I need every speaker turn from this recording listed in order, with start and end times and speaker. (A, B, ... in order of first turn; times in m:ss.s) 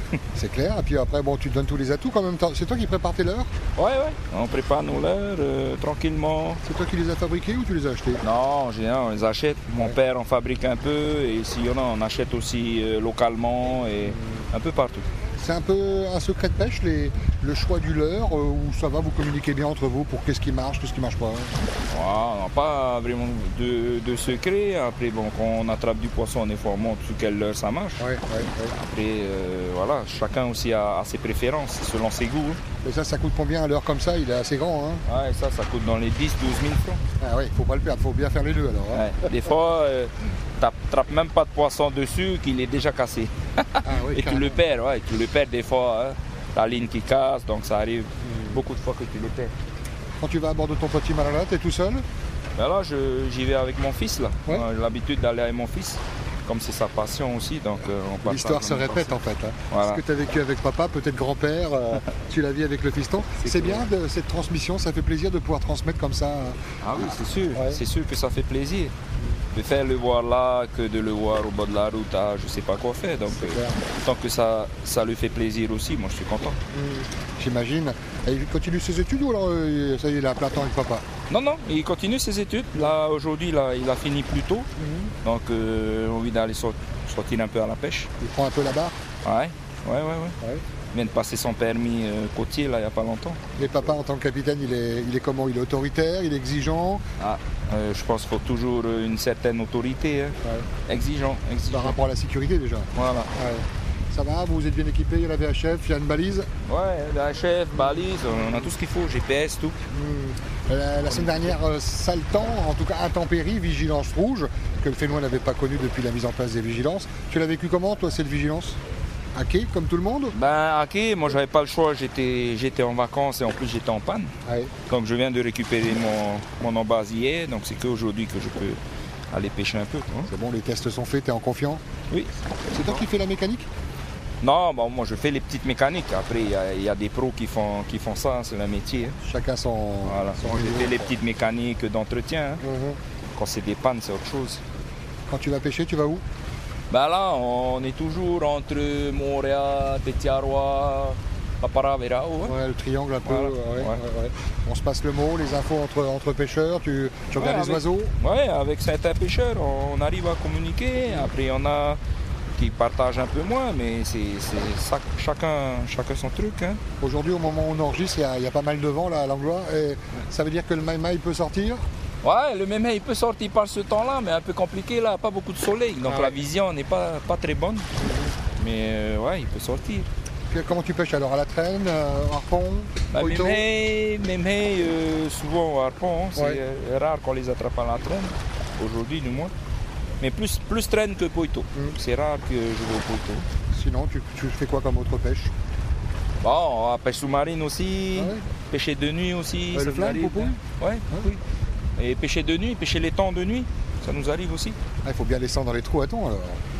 0:00.3-0:03.5 A
0:03.8-0:06.6 B
0:06.6-0:08.2 A
0:08.2-0:15.0 B
0:14.0-0:14.4 A
0:15.4-0:21.5 A
0:21.9-0:28.0 B
0:28.0-0:28.7 A
0:28.7-0:32.6 B
0:32.8-0:35.0 A
0:35.0-0:37.0 B
0:37.2-0:39.2 A
0:38.9-0:49.5 B
0:43.8-0:44.6 A
0:48.2-0:48.6 A
0:50.2-0:52.0 A
0:52.6-0:59.2 B
0:58.2-1:07.8 A
0:59.7-1:00.0 B
1:03.4-1:03.9 B
1:06.8-1:08.9 B
1:09.5-1:16.6 B
1:13.3-1:13.8 A
1:16.7-1:21.0 A
1:21.3-1:24.7 B
1:24.8-1:25.1 A
1:25.2-1:28.1 B
1:28.2-1:29.0 A
1:29.2-1:30.4 B
1:30.9-1:33.4 B
1:33.6-1:37.0 A
1:37.2-1:42.0 B
1:41.7-1:46.5 A
1:42.9-1:43.3 B
1:46.6-1:49.8 B
1:47.8-1:48.7 A
1:49.9-1:58.8 A
1:51.1-1:51.6 B
1:59.3-2:00.3 A
2:00.3-2:04.3 B
2:04.4-2:04.7 A
2:04.9-2:08.8 B
2:09.3-2:10.3 B
2:10.3-2:11.8 A
2:12.7-2:13.7 A
2:14.4-2:19.2 B
2:19.2-2:21.2 A
2:20.0-2:22.6 B
2:22.6-2:23.0 A
2:23.3-2:24.6 B
2:25.3-2:26.2 A
2:26.9-2:32.5 B
2:32.4-2:38.1 A
2:33.2-2:34.0 B
2:37.3-2:42.0 B
2:42.6-2:46.8 B
2:47.0-2:51.8 A
2:52.2-2:57.9 B
2:56.0-2:56.4 A
2:58.0-2:58.3 A
2:58.6-3:00.1 B
3:00.5-3:03.6 A
3:03.1-3:09.5 B
3:06.3-3:06.6 A
3:10.2-3:13.4 B
3:13.7-3:15.5 A
3:16.4-3:21.4 B
3:18.1-3:18.4 A
3:19.7-3:20.6 A
3:22.0-3:24.8 B
3:25.0-3:26.6 A